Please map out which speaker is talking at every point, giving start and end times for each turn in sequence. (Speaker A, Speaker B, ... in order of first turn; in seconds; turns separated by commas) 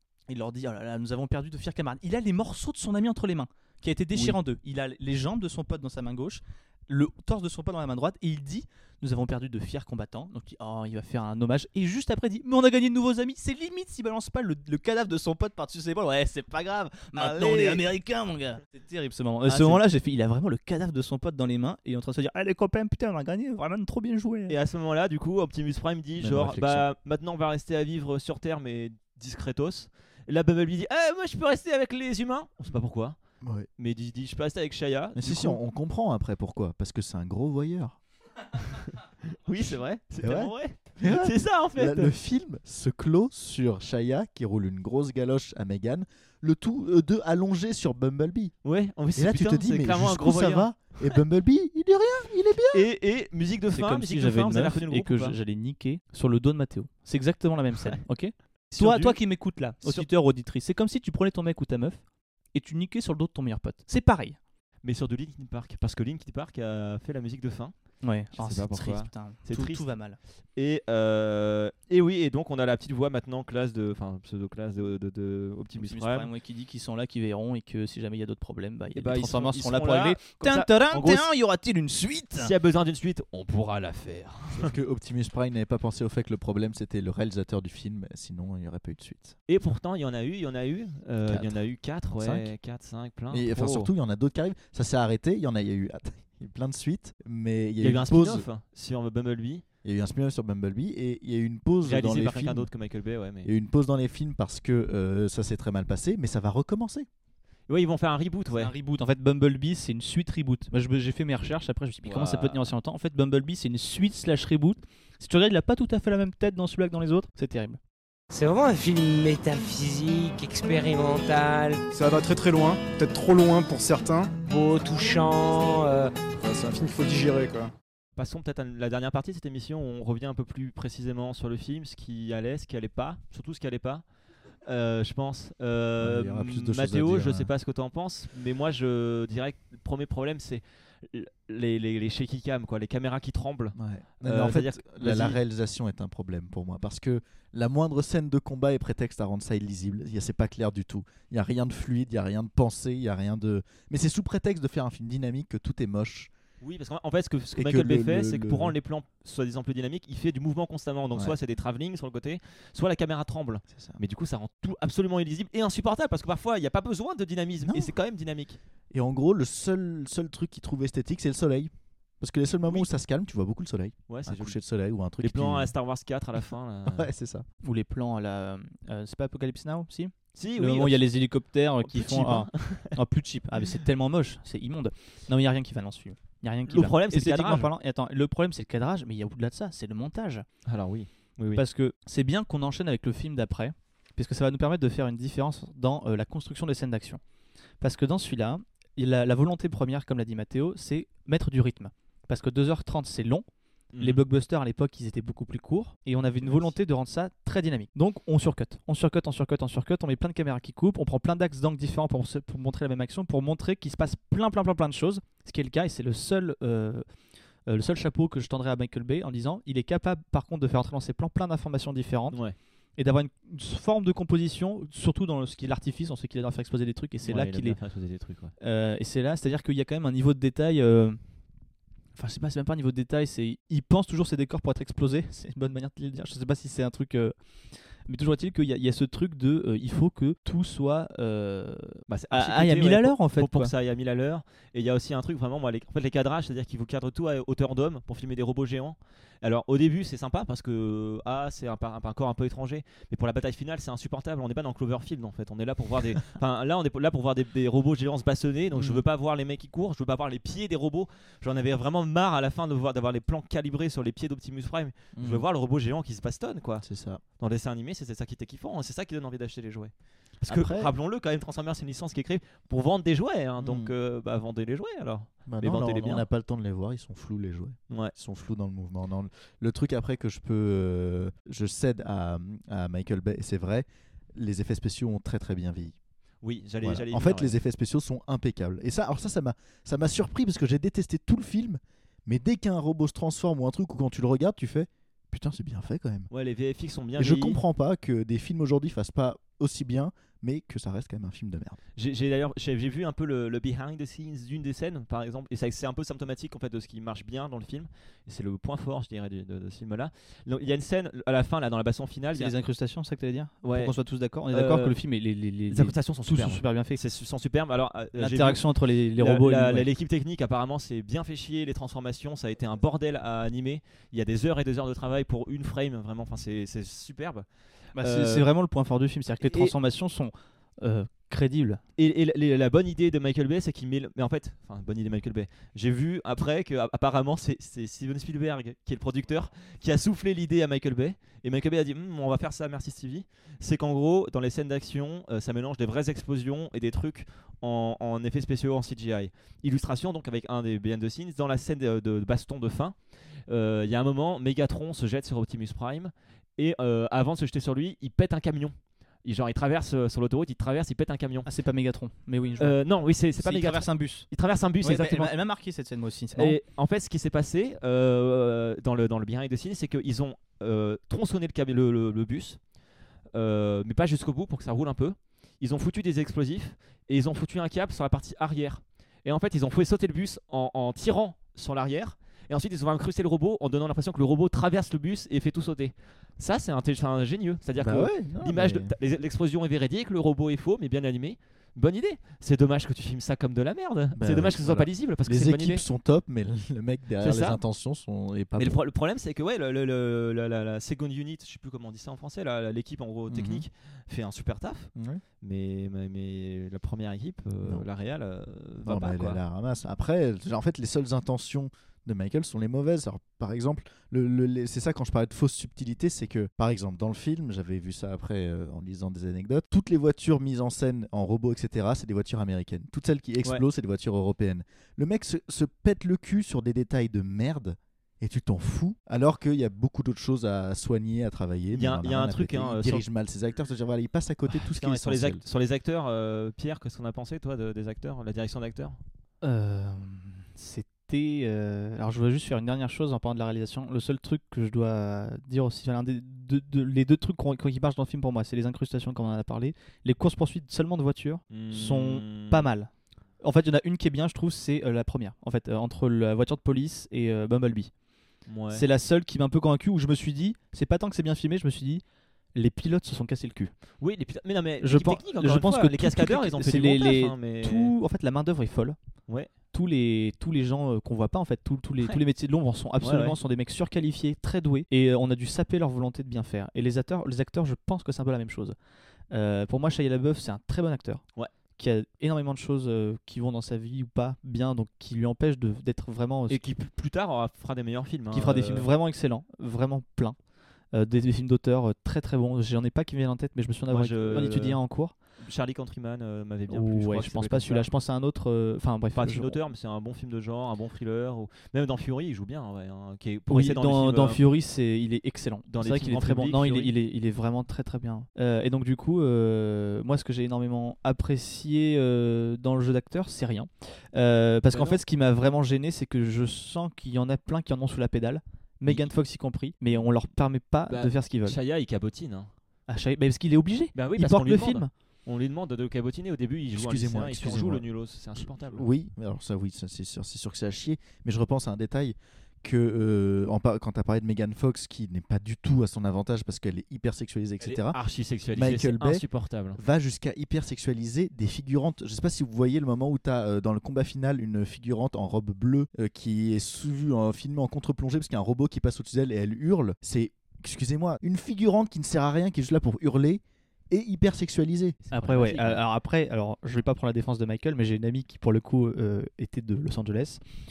Speaker A: 0.3-24.6, Speaker B: 17.1-17.8, Speaker B: 19.5-19.8, Speaker B: 24.5-33.2, Speaker C: 26.2-26.9, Speaker C: 33.4-33.7, Speaker B: 33.8-35.6, Speaker C: 35.1-38.0, Speaker B: 38.6-42.1, Speaker C: 40.2-48.5, Speaker B: 48.6-50.8, Speaker C: 49.1-52.9, Speaker B: 52.7-55.4, Speaker A: 53.7-62.0, Speaker B: 58.7-60.0, Speaker A: 62.5-64.4, Speaker B: 64.8-67.7, Speaker A: 68.0-70.2, Speaker B: 68.3-69.9, Speaker B: 70.5-76.3, Speaker A: 75.8-82.5, Speaker B: 79.0-81.2, Speaker B: 82.4-84.7, Speaker C: 84.5-89.3, Speaker B: 89.5-93.9, Speaker C: 91.3-91.6, Speaker C: 92.2-92.5, Speaker C: 93.3-98.5, Speaker B: 97.8-99.6, Speaker C: 99.8-102.7, Speaker B: 101.8-103.5, Speaker C: 103.4-107.1, Speaker B: 107.7-108.7, Speaker A: 108.5-117.8, Speaker B: 112.0-112.7, Speaker D: 118.3-121.8, Speaker E: 121.9-124.4, Speaker D: 124.5-126.1, Speaker E: 126.3-127.7, Speaker B: 128.2-134.0, Speaker B: 134.6-145.4, Speaker C: 136.0-137.5, Speaker C: 143.8-156.3, Speaker B: 156.6-168.6, Speaker C: 157.5-158.8, Speaker C: 167.7-167.9, Speaker C: 168.9-171.7, Speaker C: 172.2-175.7, Speaker B: 174.1-174.6, Speaker B: 175.2-177.1, Speaker C: 176.8-177.4, Speaker A: 177.6-190.4, Speaker B: 180.3-181.0, Speaker B: 181.8-183.0, Speaker B: 186.7-187.7, Speaker B: 190.7-191.6, Speaker A: 191.5-197.2, Speaker A: 197.8-203.4, Speaker B: 203.9-204.2, Speaker A: 204.0-217.1, Speaker B: 206.4-206.7, Speaker A: 217.7-222.4, Speaker A: 223.0-227.8, Speaker B: 227.2-228.5, Speaker A: 228.6-231.2, Speaker A: 232.2-237.3, Speaker A: 238.1-243.7, Speaker B: 242.1-266.9, Speaker C: 258.7-259.0, Speaker C: 265.1-265.4, Speaker C: 266.8-267.2, Speaker B: 267.4-276.2, Speaker C: 270.4-270.9, Speaker C: 273.6-273.9, Speaker C: 275.4-285.9, Speaker B: 286.4-287.5, Speaker C: 286.8-296.3, Speaker B: 296.3-297.6, Speaker C: 297.2-301.8, Speaker B: 302.0-312.6, Speaker A: 312.3-317.0, Speaker B: 313.6-313.9, Speaker B: 314.5-315.0, Speaker B: 315.7-327.4, Speaker A: 318.2-319.9, Speaker A: 327.9-331.8, Speaker B: 328.0-328.5, Speaker B: 329.4-329.7, Speaker B: 332.0-353.0, Speaker B: 353.5-361.5, Speaker A: 361.4-362.8, Speaker B: 362.6-365.3, Speaker A: 363.4-364.3, Speaker A: 364.8-366.6, Speaker B: 366.3-372.6, Speaker B: 373.3-395.8, Speaker C: 387.8-388.9, Speaker C: 394.1-398.8, Speaker B: 397.2-397.6, Speaker B: 398.6-404.9, Speaker C: 403.3-403.6, Speaker C: 404.9-405.2, Speaker B: 405.4-409.4, Speaker C: 408.8-435.4, Speaker B: 431.7-433.0, Speaker B: 434.6-439.0, Speaker A: 439.4-452.9, Speaker B: 451.5-452.7, Speaker A: 453.4-457.9, Speaker B: 458.5-458.8, Speaker A: 458.7-462.0, Speaker A: 462.5-463.7, Speaker B: 464.0-467.9, Speaker A: 464.8-469.0, Speaker A: 469.7-478.8, Speaker B: 473.0-473.4, Speaker A: 479.3-481.2, Speaker A: 481.8-486.6, Speaker B: 486.5-488.9, Speaker A: 488.3-490.4, Speaker A: 490.9-495.1, Speaker B: 493.9-494.8, Speaker B: 495.4-497.9, Speaker A: 496.7-499.6, Speaker B: 499.1-504.4, Speaker A: 503.5-521.6, Speaker B: 505.7-506.9, Speaker B: 514.7-515.0, Speaker B: 520.9-522.5, Speaker A: 522.9-524.9, Speaker B: 523.9-528.9, Speaker C: 526.7-538.0, Speaker B: 537.6-539.8, Speaker C: 538.5-539.2, Speaker C: 539.7-555.0, Speaker B: 555.0-555.8, Speaker A: 555.1-560.4